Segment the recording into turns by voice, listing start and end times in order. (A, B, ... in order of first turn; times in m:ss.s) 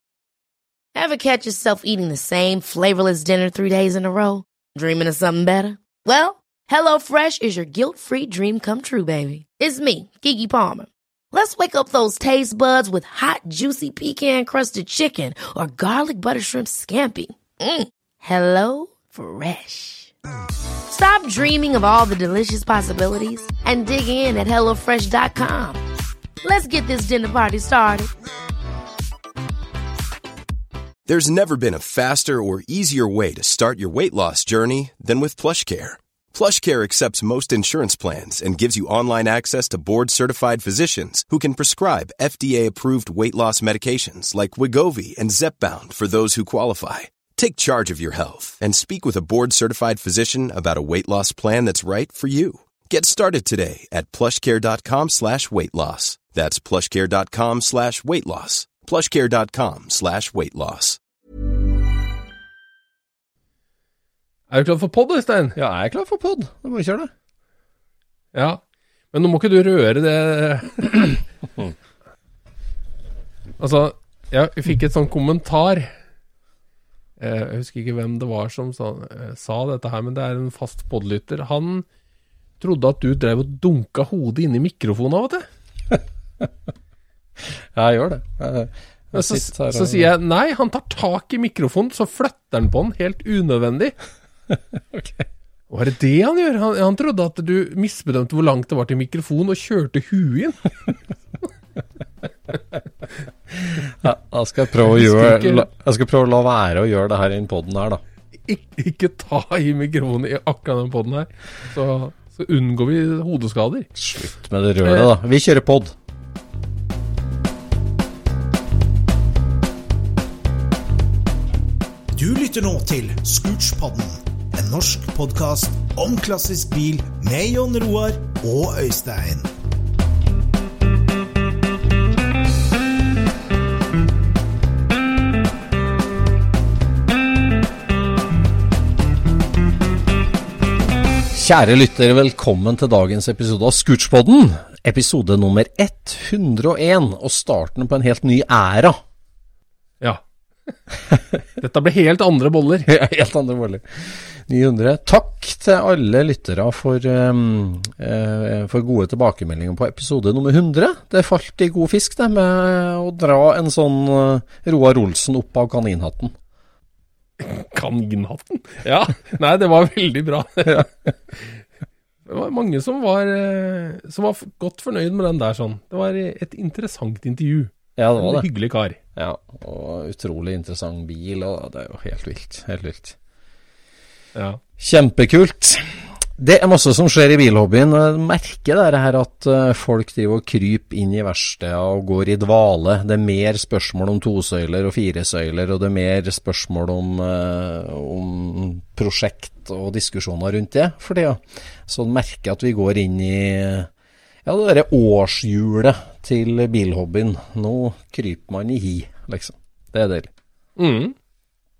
0:00.9-0:20.1 A
0:20.9-0:25.8 A
0:26.4-0:28.1 A
0:31.1-1:01.0 B
1:04.5-1:05.6 C
1:05.6-1:07.1 D
1:08.3-1:08.6 C
1:09.1-1:11.2 C
1:13.6-1:15.9 C
1:17.2-1:21.8 C
1:22.6-1:25.4 C
1:25.9-1:26.5 D
1:27.4-1:30.1 D
1:29.1-1:33.9 C
1:34.7-1:35.2 D
1:35.7-1:40.9 C
1:43.6-1:48.0 D
1:44.8-1:45.6 C
1:48.5-1:53.9 C
1:54.0-1:55.9 D
2:02.1-2:09.5 E
2:21.3-2:29.0 D
2:30.0-2:30.8 C
2:31.6-2:32.9 C
2:32.9-2:46.3 D
2:47.4-2:51.3 C
2:52.2-2:59.0 C
2:58.0-2:58.5 D
2:59.2-3:03.2 D
3:04.3-3:04.6 C
3:04.8-3:23.9 D
3:24.4-3:30.3 D
3:30.8-3:31.1 C